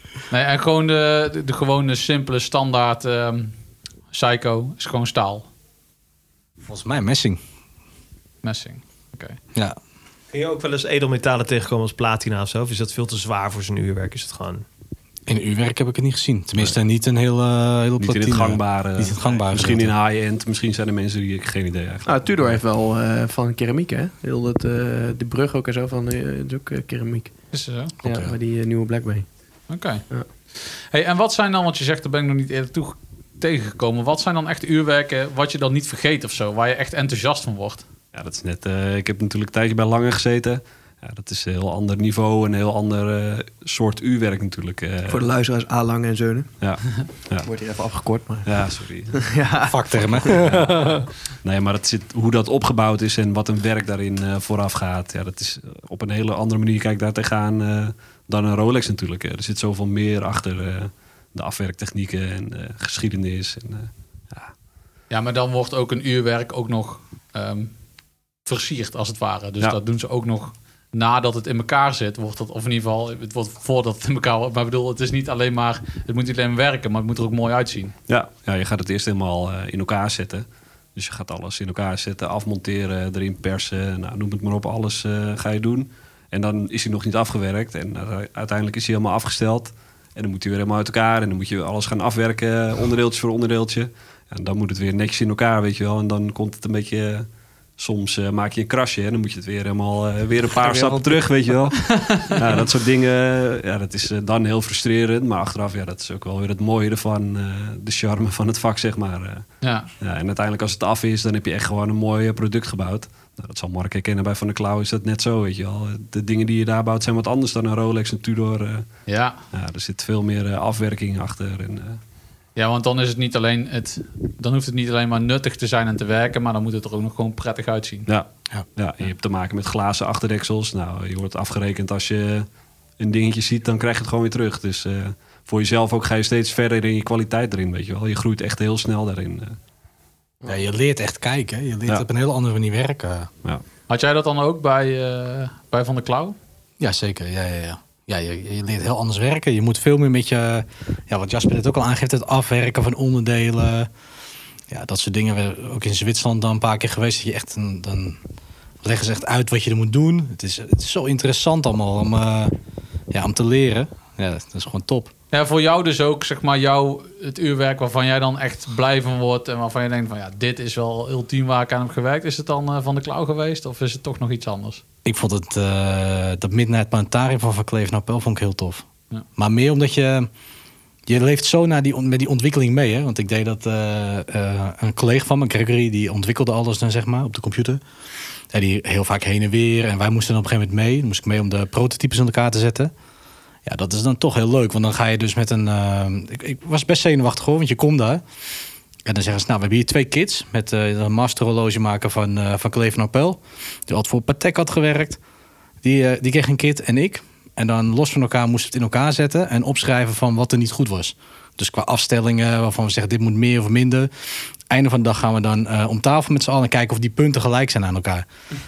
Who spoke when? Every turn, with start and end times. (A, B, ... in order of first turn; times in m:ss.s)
0:00.3-0:03.5 A
0:04.1-0:05.5 A
0:06.7-0:07.4 B
0:08.4-0:09.4 A
0:10.3-0:14.6 C
0:15.3-0:19.9 B
0:18.0-0:22.6 D
0:22.1-0:27.3 E
0:27.5-0:27.9 A
0:28.0-0:29.3 E
0:28.0-0:28.4 D
0:29.7-0:30.0 A
0:30.6-0:37.8 A
0:38.1-0:45.2 D
0:45.1-0:46.5 E
0:46.6-0:47.5 D
0:47.4-0:48.5 E
0:48.4-0:49.2 D
0:49.2-0:50.4 E
0:49.6-0:51.0 B
0:50.4-0:50.9 D
0:51.4-1:04.5 D
1:05.1-1:07.7 A
1:08.5-1:18.0 A
1:18.1-1:37.3 D
1:37.8-1:49.5 D
1:40.6-1:41.0 A
1:41.8-1:42.4 A
1:49.6-1:49.9 A
1:50.0-1:58.9 D
1:59.1-1:59.4 A
1:59.5-2:02.0 D
2:02.6-2:08.1 A
2:08.1-2:12.5 D
2:13.0-2:19.6 D
2:20.5-2:23.3 B
2:23.9-2:26.4 A
2:26.8-2:33.9 B
2:34.7-2:38.2 B
2:38.8-2:42.5 B
2:43.1-2:45.1 B
2:45.3-2:54.8 A
2:55.0-2:58.8 B
2:59.4-3:00.3 B
3:01.1-3:07.8 B
3:08.5-3:12.9 B
3:13.6-3:18.2 B
3:19.1-3:25.2 B
3:25.8-3:38.3 B